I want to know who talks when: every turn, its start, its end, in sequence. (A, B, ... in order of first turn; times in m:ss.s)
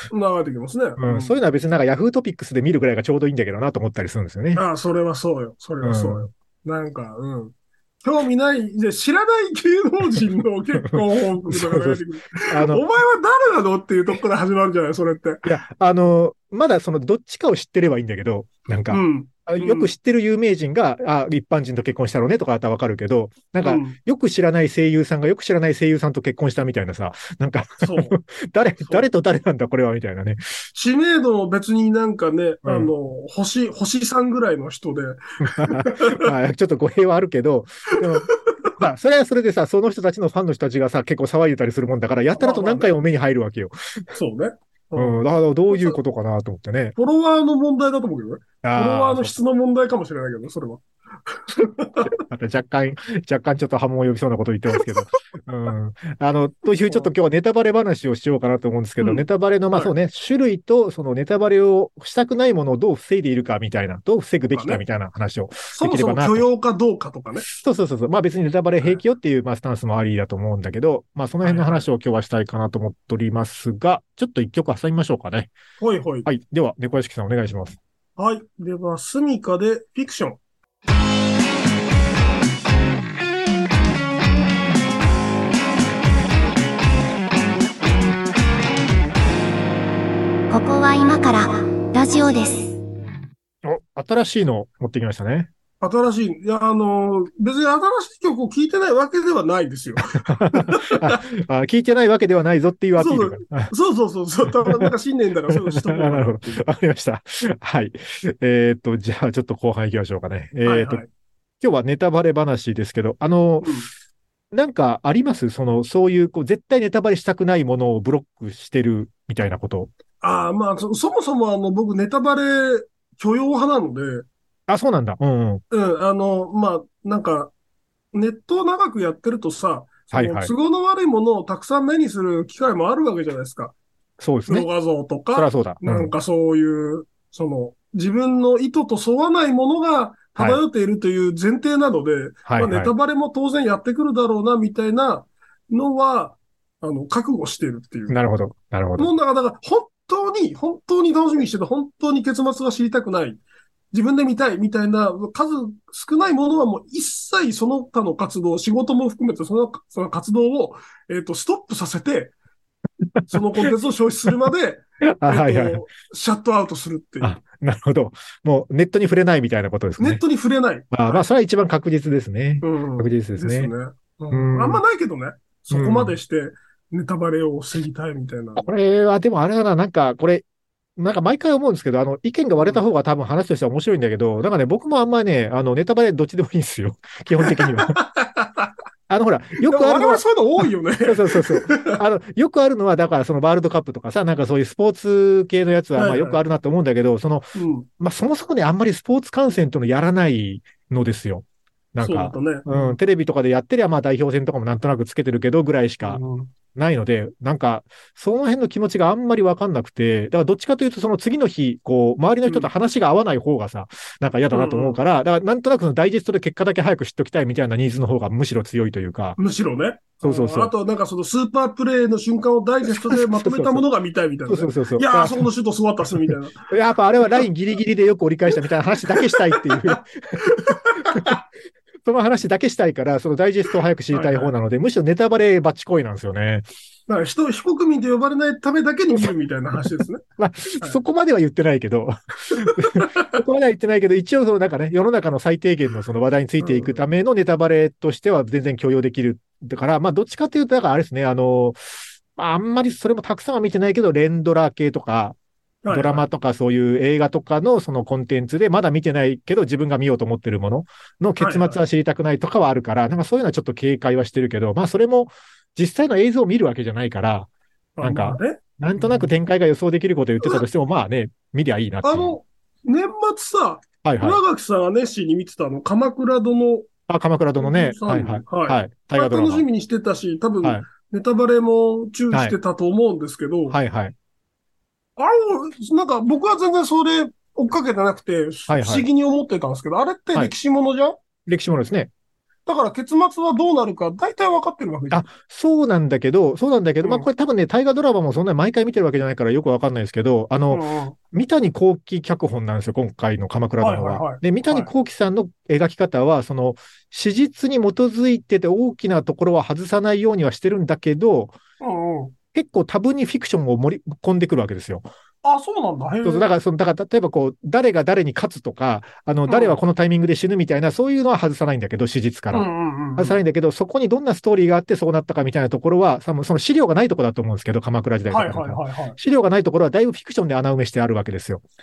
0:00.1-0:01.3 A
0:01.0-0:04.6 B
0:04.6-0:15.4 A
0:05.8-0:06.3 B
0:10.8-0:12.8 B
0:15.4-0:30.4 B
0:18.9-0:19.9 A
0:23.6-0:24.0 A
0:27.8-0:28.2 A
0:28.8-0:29.1 A
0:30.8-0:36.3 A
0:32.6-0:32.9 B
0:35.4-0:44.0 B
0:38.1-0:38.7 A
0:42.4-0:42.9 A
0:44.1-0:45.2 A
0:45.0-0:47.0 B
0:47.0-0:52.2 A
0:48.6-0:49.3 B
0:52.0-1:06.5 B
0:59.0-0:59.9 A
1:04.5-1:04.8 A
1:05.7-1:07.5 A
1:07.5-1:15.5 B
1:11.4-1:11.9 A
1:15.8-1:16.3 A
1:16.3-1:17.8 B
1:18.2-1:20.4 A
1:30.5-1:32.8 C
1:33.6-1:35.5 B
1:35.8-1:41.2 A
1:40.2-1:43.7 B
1:43.0-1:46.6 A
1:44.6-1:44.9 B
1:45.5-1:51.0 B
1:50.6-1:51.1 A
1:51.6-1:53.7 B
1:53.6-1:53.9 A
1:54.5-1:59.9 B
2:00.2-2:04.3 A
2:04.7-2:05.6 B
2:05.7-2:07.5 A
2:08.1-2:13.7 A
2:10.1-2:10.5 B
2:14.2-2:14.7 B
2:14.5-2:28.2 A
2:15.4-2:16.1 B
2:20.4-2:20.6 B
2:22.5-2:22.9 B
2:28.1-2:29.1 B
2:29.0-2:33.4 A
2:33.9-2:42.3 A
2:43.3-2:47.4 A
2:45.2-2:45.8 B
2:47.2-2:50.2 B
2:50.0-2:51.3 A
2:50.9-2:53.7 B
2:52.6-2:58.7 A
2:54.3-2:54.8 B
2:55.7-2:56.2 B
2:58.6-3:00.4 B
3:01.0-3:08.0 B
3:02.6-3:02.8 A
3:07.4-3:08.7 A
3:09.1-3:10.2 B
3:09.6-3:12.0 A
3:11.0-3:26.2 B
3:16.0-3:16.4 A
3:17.5-3:17.9 A
3:22.0-3:23.0 A
3:26.0-3:26.5 A
3:26.8-3:39.4 B
3:32.5-3:32.7 A
3:34.5-3:35.0 A
3:39.4-3:46.6 A
3:40.2-3:40.7 B
3:42.9-3:43.8 B
3:44.5-3:45.5 B
3:46.3-3:50.4 B
3:49.0-3:51.4 A
3:51.1-3:51.4 B
3:52.0-3:56.7 B
3:54.1-3:54.5 A
3:57.1-4:00.2 A
3:59.8-4:15.4 B
4:02.6-4:03.4 A
4:06.6-4:07.0 A
4:15.8-4:16.3 A
4:15.9-4:27.5 B
4:21.4-4:21.8 A
4:28.0-4:29.3 A
4:28.0-4:32.4 B
4:32.0-4:36.9 A
4:34.0-4:34.4 B
4:37.1-4:39.7 B
4:37.6-4:43.8 A
4:43.7-4:44.2 B
4:45.2-4:51.2 A
4:48.7-4:49.1 B
4:51.5-4:52.1 B
4:52.7-4:55.2 A
4:55.1-5:11.6 B
4:57.0-4:57.3 A
5:00.7-5:01.2 A
5:03.8-5:04.9 A
5:11.8-5:12.3 A
5:12.5-5:15.1 B
5:15.4-5:16.5 A
5:16.2-5:31.6 B
5:19.5-5:19.8 A
5:22.5-5:23.4 A
5:28.3-5:29.2 A